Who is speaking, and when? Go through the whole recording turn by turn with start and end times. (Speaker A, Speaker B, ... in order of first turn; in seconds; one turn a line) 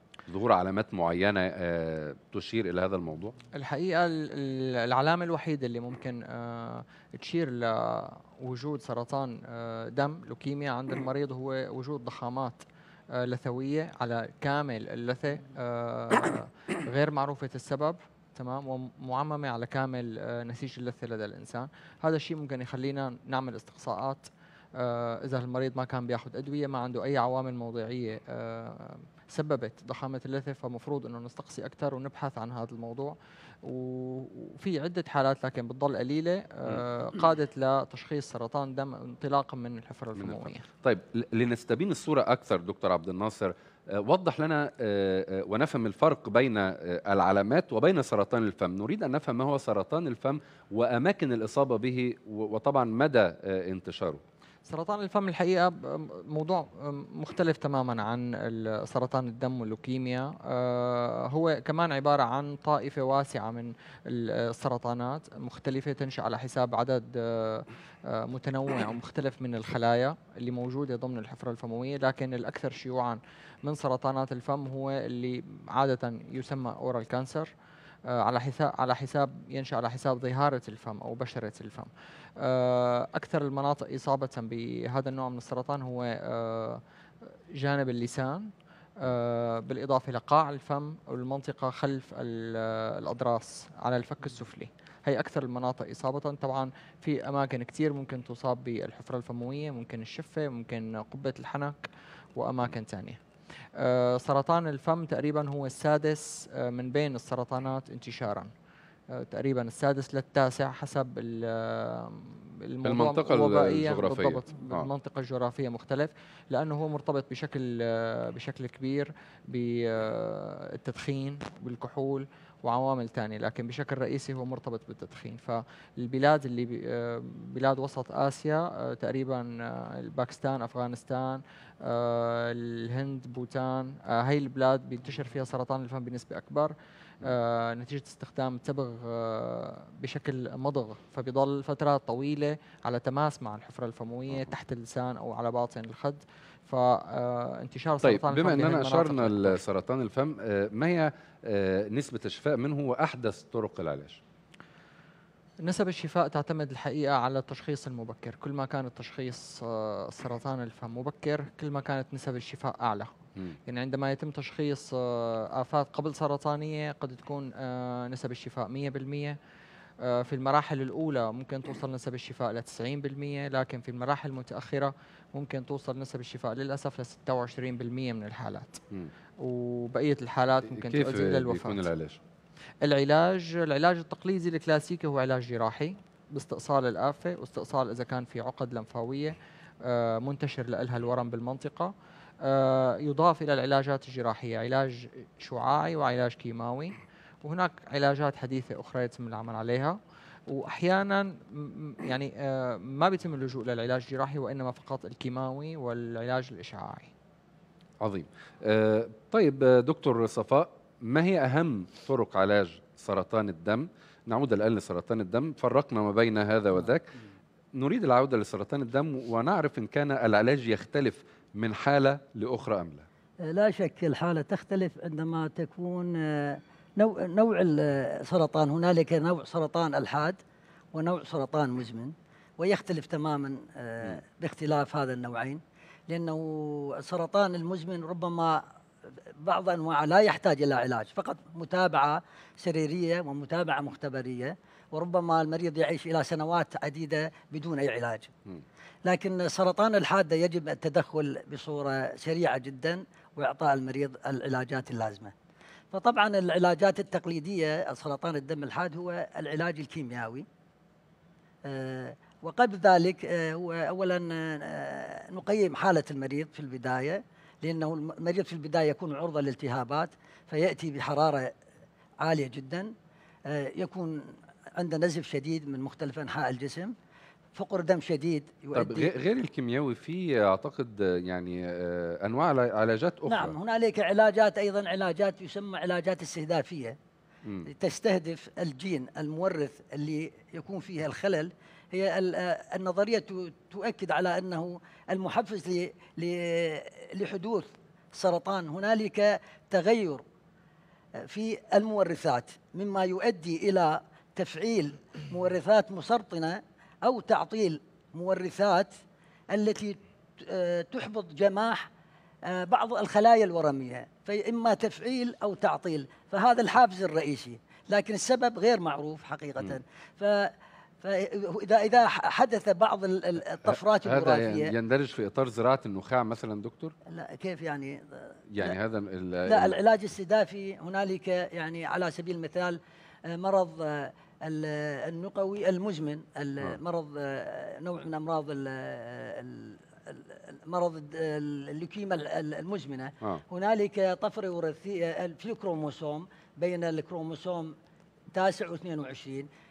Speaker A: 0.3-3.4
Speaker B: 3.5-40.7
Speaker A: 40.2-54.2
Speaker B: 54.7-77.5
Speaker B: 78.1-86.8
Speaker B: 87.5-103.2
Speaker B: 103.8-108.5
Speaker B: 109.1-149.6
Speaker A: 112.8-114.9
Speaker A: 148.0-154.2
Speaker B: 155.6-163.1
Speaker B: 163.7-169.4
Speaker B: 170.0-178.8
Speaker B: 179.4-181.9
Speaker A: 180.7-182.2
Speaker B: 182.8-200.0
Speaker B: 200.5-207.1
Speaker A: 208.0-217.1
Speaker A: 217.8-223.1
Speaker C: 223.4-230.4
Speaker C: 230.9-238.6
Speaker C: 239.4-248.3
Speaker C: 249.1-255.3
Speaker C: 255.9-260.4
Speaker C: 261.6-271.5
Speaker C: 272.2-272.9
Speaker C: 273.5-276.9
Speaker C: 277.6-279.1
Speaker A: 278.8-283.6
Speaker C: 283.3-287.0
Speaker C: 287.7-300.2
Speaker C: 301.2-308.9
Speaker C: 309.5-311.9
Speaker C: 312.4-324.7
Speaker A: 323.6-326.9
Speaker C: 327.1-328.8
Speaker A: 328.5-329.8
Speaker C: 329.5-347.8
Speaker C: 348.3-349.5